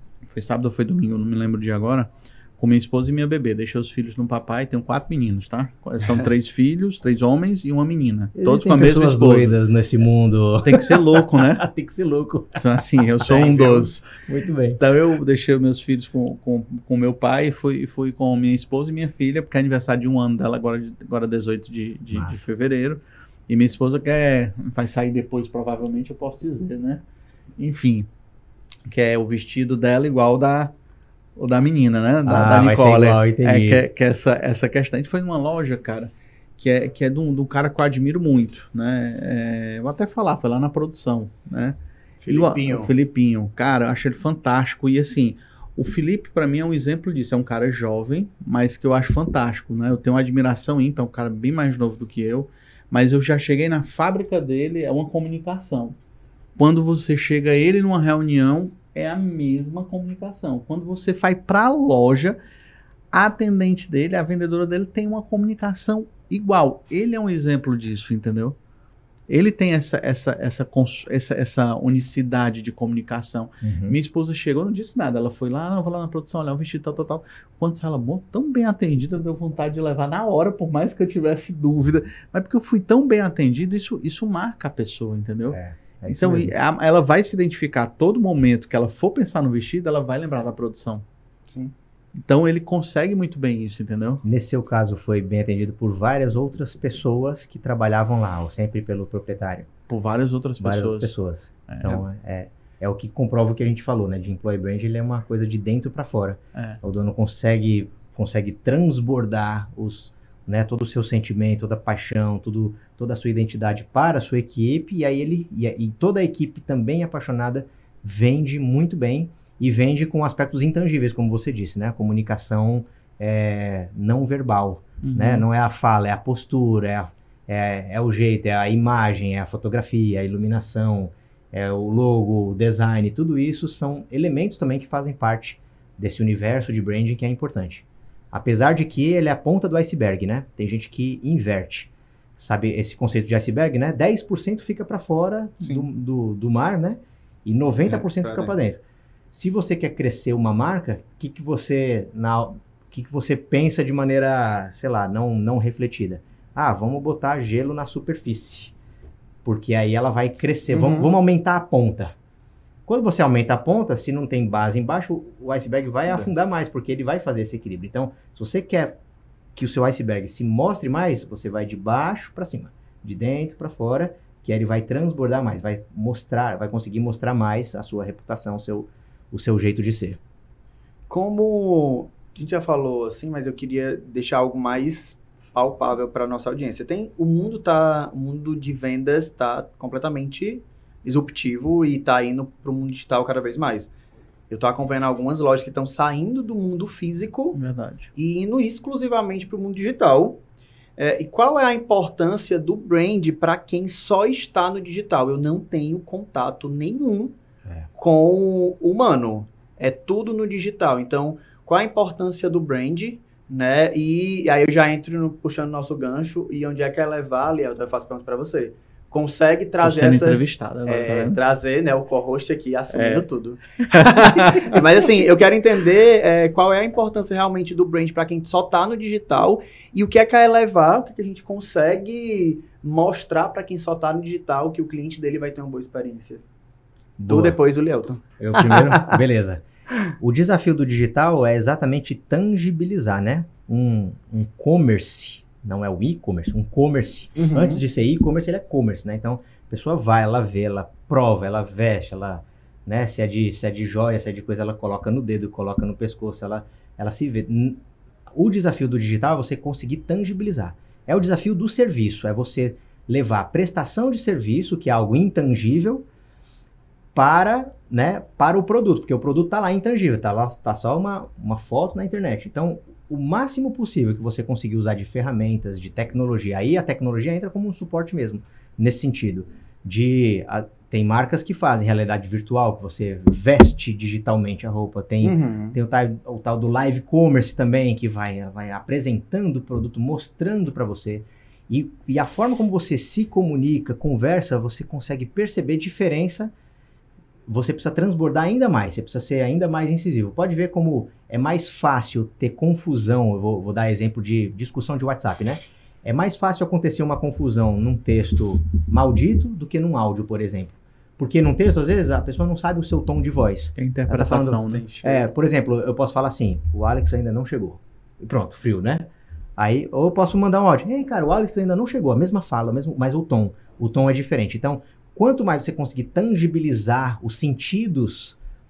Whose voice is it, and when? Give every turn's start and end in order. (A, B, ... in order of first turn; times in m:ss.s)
0:00.3-0:09.6 A
0:08.4-0:14.8 B
0:10.6-0:11.7 A
0:12.6-0:14.0 A
0:14.8-0:27.0 A
0:22.1-0:22.4 B
0:27.6-0:28.1 A
0:28.9-0:30.7 A
0:31.4-0:41.7 A
0:32.2-0:33.8 B
0:42.2-0:42.9 C
0:42.3-0:55.9 A
0:56.6-1:02.4 A
1:03.1-1:08.6 A
1:09.3-1:31.0 A
1:13.6-1:14.0 B
1:25.5-1:26.5 B
1:31.5-1:31.7 C
1:32.2-1:34.2 A
1:34.2-1:39.7 B
1:39.9-1:41.1 A
1:40.6-2:28.8 B
1:41.7-1:42.0 A
1:46.5-1:46.8 A
2:05.0-2:05.4 A
2:27.8-2:28.5 C
2:29.3-2:38.7 B
2:39.4-2:42.1 B
2:40.7-2:41.1 C
2:42.9-2:49.0 B
2:49.5-3:00.2 B
3:01.1-3:13.9 C
3:14.5-3:17.6 C
3:17.5-3:18.1 A
3:18.1-3:20.4 C
3:21.0-3:27.3 C
3:28.0-3:56.4 C
3:39.8-3:41.4 A
3:42.9-3:43.2 A
3:43.9-3:44.8 A
3:57.2-3:57.6 B
3:57.3-3:59.2 C
3:58.4-3:59.6 B
4:00.2-4:17.8 B
4:07.4-4:07.8 C
4:18.3-4:26.0 B
4:27.1-4:56.5 B
4:45.2-4:45.8 C
4:57.5-5:19.0 B
5:13.8-5:14.8 A
5:14.6-5:15.3 C
5:19.6-5:28.4 B